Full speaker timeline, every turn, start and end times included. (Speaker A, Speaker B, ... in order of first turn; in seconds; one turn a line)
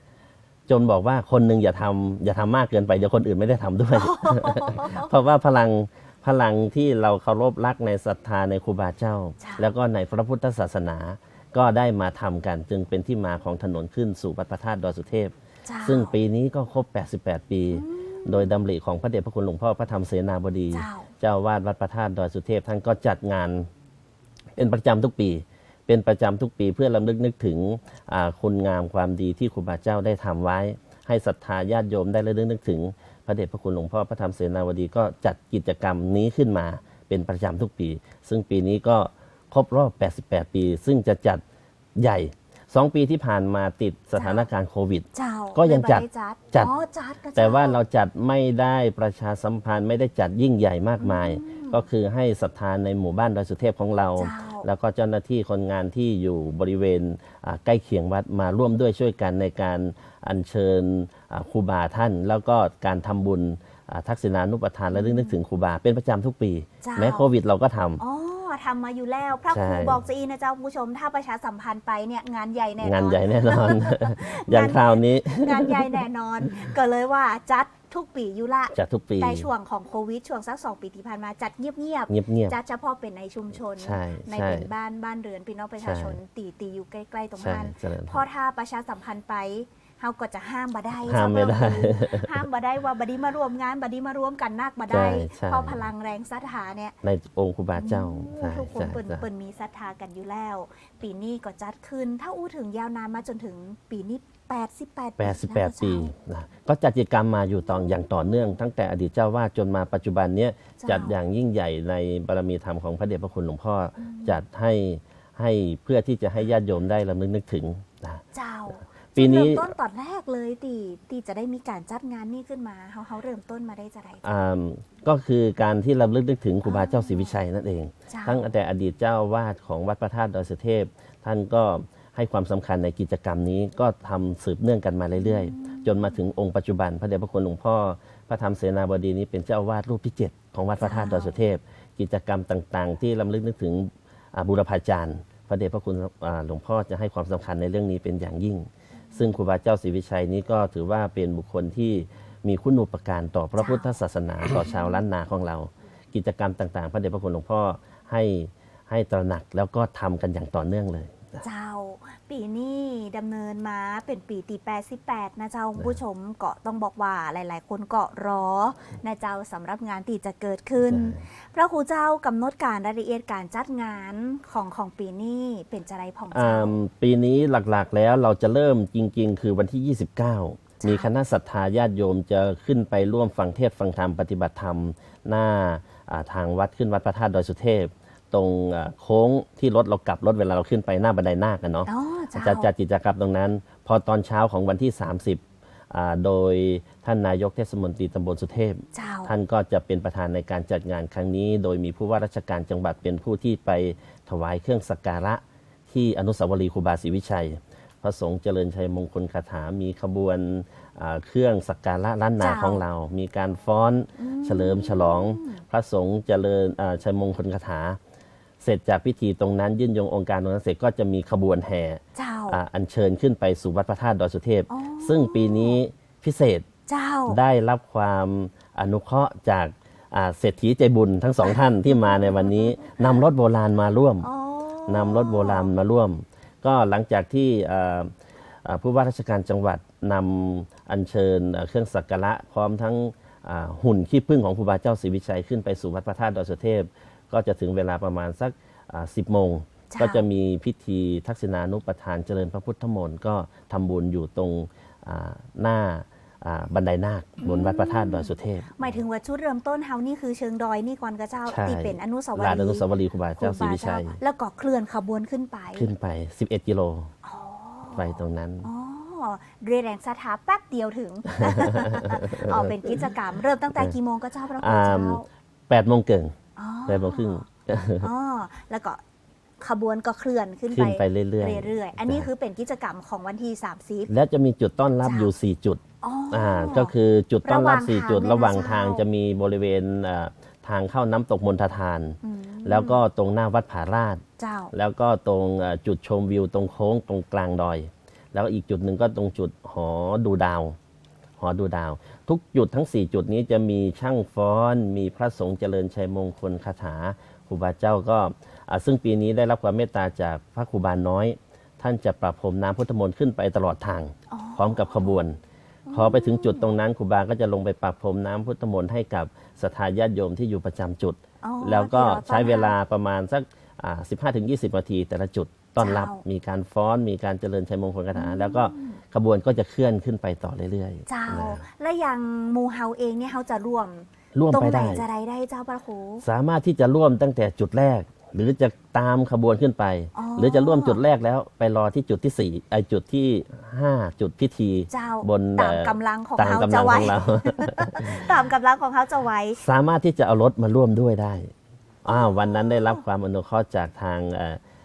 Speaker A: 0.7-23.7
Speaker B: 4.0-5.1
Speaker B: 9.4-9.7
Speaker B: 15.7-16.1
Speaker B: 17.7-18.6
Speaker B: 20.7-21.1
Speaker A: 24.6-41.4
Speaker A: 42.0-46.7
Speaker B: 44.2-44.5
Speaker B: 45.1-47.8
Speaker A: 47.4-68.0
Speaker B: 51.0-51.9
Speaker B: 54.2-54.7
Speaker B: 64.9-65.4
Speaker B: 66.8-67.3
Speaker B: 68.0-96.9
Speaker A: 69.5-70.0
Speaker A: 72.8-76.0
Speaker A: 78.7-79.5
Speaker A: 82.1-82.6
Speaker A: 83.8-84.7
Speaker A: 85.8-86.2
Speaker A: 87.4-88.2
Speaker A: 91.1-92.4
Speaker A: 94.9-95.8
Speaker A: 97.0-99.2
Speaker B: 97.8-106.1
Speaker A: 105.2-118.2
Speaker B: 110.8-111.2
Speaker B: 114.0-114.4
Speaker B: 118.3-124.2
Speaker A: 119.2-119.7
Speaker A: 124.2-161.4
Speaker B: 126.6-127.4
Speaker B: 128.1-128.4
Speaker B: 135.2-136.1
Speaker B: 140.8-141.4
Speaker B: 153.6-153.9
Speaker B: 154.7-154.9
Speaker B: 161.4-176.8
Speaker A: 170.9-171.2
Speaker A: 176.3-218.0
Speaker B: 180.8-181.1
Speaker B: 191.9-192.7
Speaker B: 198.9-199.3
Speaker B: 212.4-212.8
Speaker B: 214.2-215.6
Speaker A: 218.6-226.7
Speaker B: 222.2-222.6
Speaker B: 224.7-225.8
Speaker B: 226.9-227.4
Speaker A: 227.3-234.3
Speaker B: 231.4-233.1
Speaker B: 234.2-235.7
Speaker A: 234.9-238.1
Speaker A: 238.6-258.9
Speaker B: 249.9-250.2
Speaker B: 257.4-262.9
Speaker A: 261.5-264.2
Speaker B: 263.4-265.9
Speaker A: 265.8-267.1
Speaker B: 267.2-275.3
Speaker A: 267.9-268.7
Speaker A: 271.4-273.0
Speaker A: 274.6-276.4
Speaker B: 276.6-277.4
Speaker A: 276.9-278.1
Speaker B: 278.0-279.0
Speaker B: 279.6-284.1
Speaker A: 280.7-282.3
Speaker A: 284.1-300.8
Speaker B: 285.0-285.3
Speaker B: 286.0-289.1
Speaker B: 292.2-293.0
Speaker B: 294.4-294.7
Speaker A: 301.4-315.4
Speaker B: 314.3-315.2
Speaker B: 315.9-316.7
Speaker A: 315.9-331.6
Speaker B: 321.4-322.8
Speaker B: 325.8-326.2
Speaker B: 328.1-329.0
Speaker B: 331.1-336.2
Speaker A: 334.3-335.1
Speaker A: 336.2-348.3
Speaker B: 340.1-341.0
Speaker B: 344.9-349.6
Speaker A: 349.6-351.5
Speaker A: 352.1-354.6
Speaker B: 352.1-353.0